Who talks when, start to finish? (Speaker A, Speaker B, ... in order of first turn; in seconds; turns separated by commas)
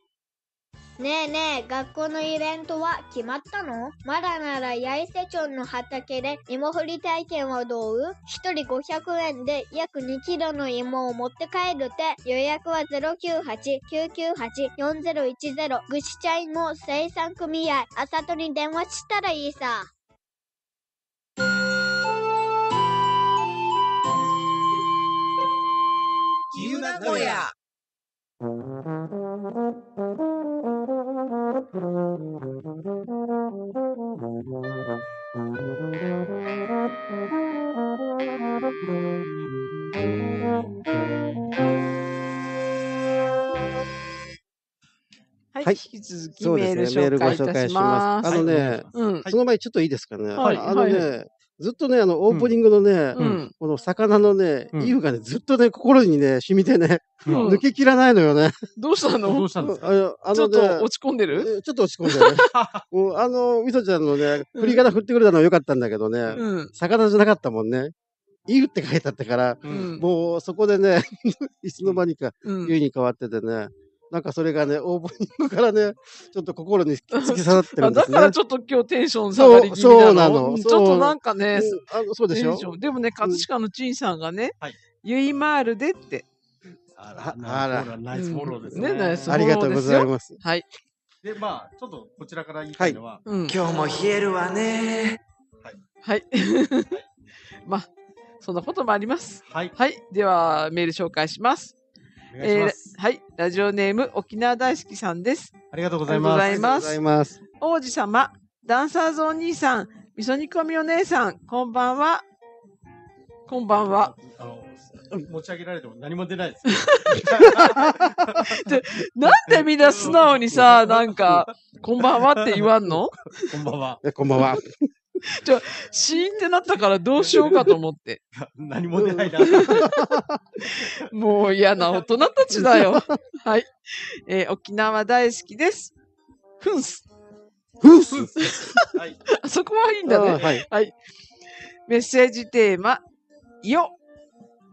Speaker A: 1.0-19.9, Speaker B: 26.5-27.5, Speaker C: 26.6-27.4, Speaker D: 45.5-49.3, Speaker E: 46.4-58.6, Speaker C: 48.2-49.3, Speaker D: 50.4-51.1, Speaker C: 50.4-50.6, Speaker D: 53.1-53.5, Speaker C: 53.1-53.5, Speaker C: 57.2-57.5, Speaker D: 57.3-57.6, Speaker D: 58.8-59.5, Speaker C: 59.2-59.9, Speaker E: 59.6-67.9, Speaker D: 60.3-61.5, Speaker C: 62.4-62.8, Speaker D: 64.5-64.8, Speaker D: 66.3-66.7, Speaker E: 68.5-78.3, Speaker C: 69.6-70.0, Speaker D: 69.7-70.0, Speaker D: 72.4-72.7, Speaker D: 77.1-81.8, Speaker E: 79.3-82.7, Speaker D: 82.3-86.2, Speaker C: 86.9-89.6, Speaker E: 87.2-87.9, Speaker D: 88.1-90.7, Speaker E: 89.3-90.4, Speaker C: 91.2-93.3, Speaker D: 93.2-93.6, Speaker B: 93.4-95.2, Speaker D: 96.0-96.9, Speaker D: 98.4-101.7, Speaker C: 99.5-99.7, Speaker C: 102.3-102.9, Speaker D: 102.4-105.5, Speaker C: 105.7-106.9, Speaker D: 106.1-107.0, Speaker E: 106.1-107.4, Speaker D: 107.6-112.2, Speaker D: 113.5-114.1, Speaker C: 113.7-121.5, Speaker D: 116.7-117.8, Speaker D: 118.3-123.5, Speaker C: 122.0-124.0, Speaker E: 124.0-124.9, Speaker D: 125.2-128.2, Speaker C: 127.2-127.7, Speaker C: 128.3-130.2, Speaker E: 129.0-130.4, Speaker D: 129.4-129.9, Speaker D: 130.6-135.9, Speaker E: 132.5-133.2, Speaker D: 136.6-137.0, Speaker E: 137.8-138.7, Speaker C: 137.9-138.4, Speaker D: 138.4-138.8, Speaker C: 138.9-139.2, Speaker D: 139.3-140.9, Speaker E: 140.1-140.6, Speaker D: 141.9-143.0, Speaker D: 143.6-143.9